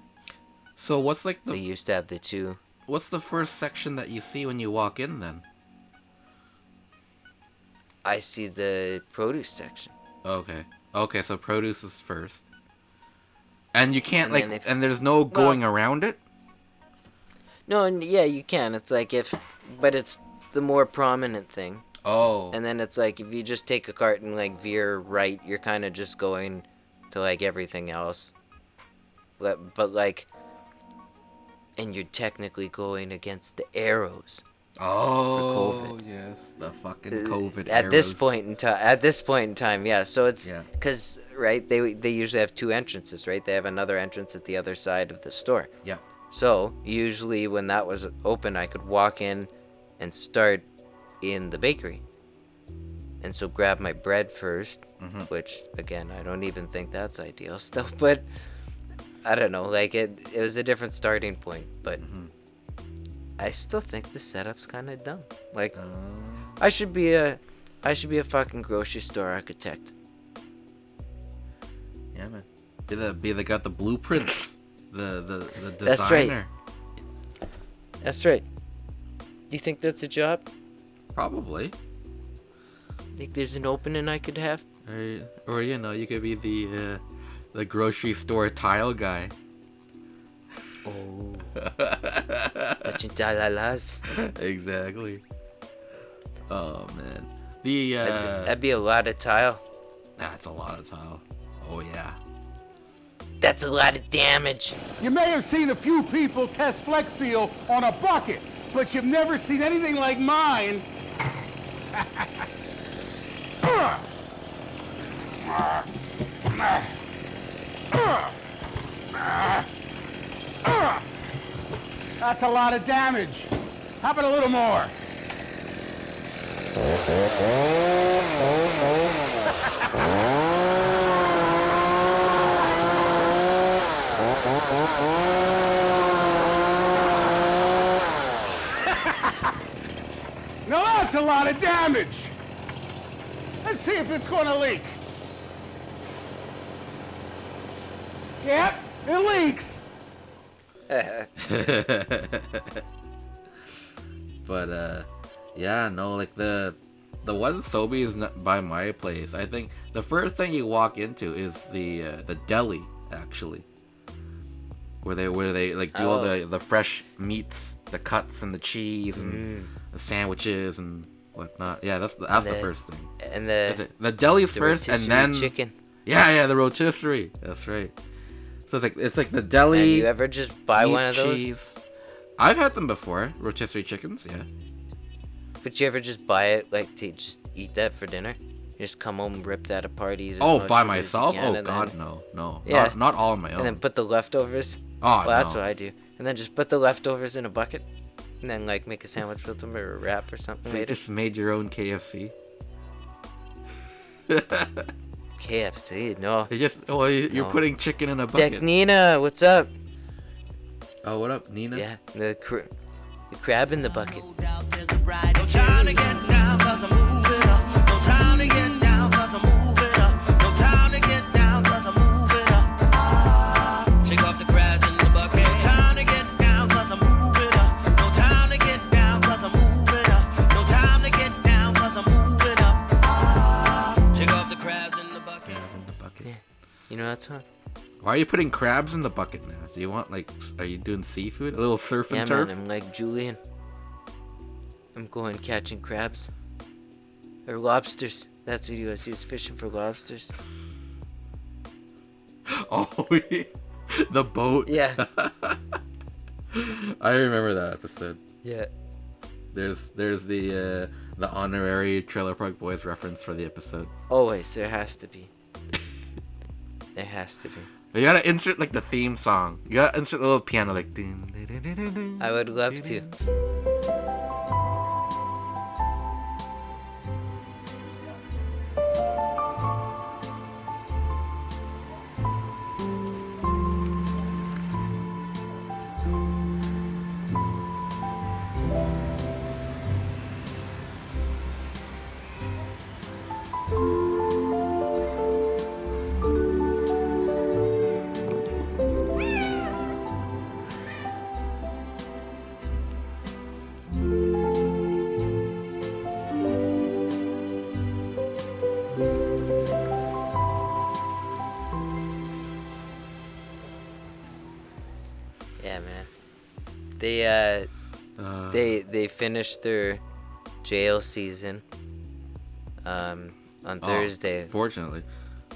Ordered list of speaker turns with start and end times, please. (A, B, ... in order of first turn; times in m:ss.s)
0:00.8-0:01.6 A
0:01.5-0:02.6 B
0:02.9-0:05.4 A
0:08.0-0:09.9 B
0:10.2-0:12.4 A
0:13.7-0:16.2 A
0:14.2-0:14.7 B
0:15.3-0:15.6 B
0:17.7-0:21.9 B
0:22.0-0:22.6 A
0:22.5-0:28.3 B
0:29.4-0:30.3 B
0:31.8-0:34.4 B
0:34.8-0:38.3 A
0:35.3-0:36.0 B
0:37.1-0:45.7 B
0:46.3-0:50.6 B
0:51.2-0:52.0 B
0:53.2-0:58.3 B
0:55.0-0:55.3 A
0:59.2-1:02.0 B
1:02.0-1:02.3 A
1:03.4-1:05.8 B
1:05.7-1:06.6 A
1:06.6-1:09.9 B
1:12.1-1:16.5 A
1:15.8-1:16.4 B
1:18.0-1:18.4 B
1:19.5-1:20.5 B
1:21.2-1:21.8 A
1:23.2-1:24.6 B
1:24.8-1:27.0 A
1:27.5-1:29.3 A
1:30.8-1:31.5 B
1:31.6-1:33.0 A
1:32.8-1:34.0 B
1:34.1-1:35.2 A
1:36.5-1:38.6 A
1:38.0-1:39.6 B
1:40.2-1:42.2 A
1:43.4-1:44.8 B
1:45.0-1:50.9 C
1:52.0-1:52.4 C
1:53.6-1:54.0 C
1:55.4-1:55.9 C
1:56.5-1:56.9 C
1:57.9-1:58.3 C
1:59.1-1:59.7 C
2:00.6-2:01.1 C
2:02.2-2:04.9 C
2:18.9-2:19.5 C
2:20.6-2:22.3 C
2:23.6-2:25.0 C
2:28.4-2:29.8 C
2:30.9-2:31.3 B
2:31.4-2:32.8 A
2:34.4-2:43.7 A
2:45.0-2:53.1 A
2:45.9-2:46.4 B
2:49.1-2:49.7 B
2:52.3-2:53.8 B
2:53.7-2:55.5 A
2:54.5-2:55.7 B
2:56.1-2:58.0 A
2:58.7-3:00.1 A
2:59.7-3:01.6 B
3:00.8-3:01.8 A
3:02.4-3:04.5 A
3:05.6-3:12.0 B
3:10.4-3:13.8 A
3:12.6-3:13.0 B
3:13.6-3:17.8 B
3:15.0-3:15.6 A
3:18.4-3:21.0 B
3:20.6-3:22.3 A
3:24.3-3:24.9 A
3:25.4-3:26.5 B
3:26.5-3:28.7 A
3:27.3-3:27.6 B
3:28.3-3:29.7 B
3:31.0-3:31.9 A
3:31.7-3:32.7 B
3:33.3-3:34.3 B
3:34.1-3:55.6 D
3:55.4-3:56.3 A
3:56.2-3:57.4 B
3:58.0-4:02.5 A
4:02.1-4:03.4 B
4:05.0-4:06.3 B
4:07.5-4:10.3 B
4:12.5-4:15.8 A
4:14.6-4:15.0 B
4:16.5-4:18.2 A
4:18.4-4:18.7 B
4:19.5-4:23.9 A
4:24.1-4:25.3 B
4:27.0-4:27.7 B
4:27.9-4:33.1 A
4:32.2-4:33.1 B
5:15.6-5:16.1 B
5:17.0-5:17.7 B
5:18.2-5:18.8 A
5:18.5-5:20.0 B
5:20.6-5:21.6 B
5:22.8-5:24.5 B
5:23.8-5:25.1 A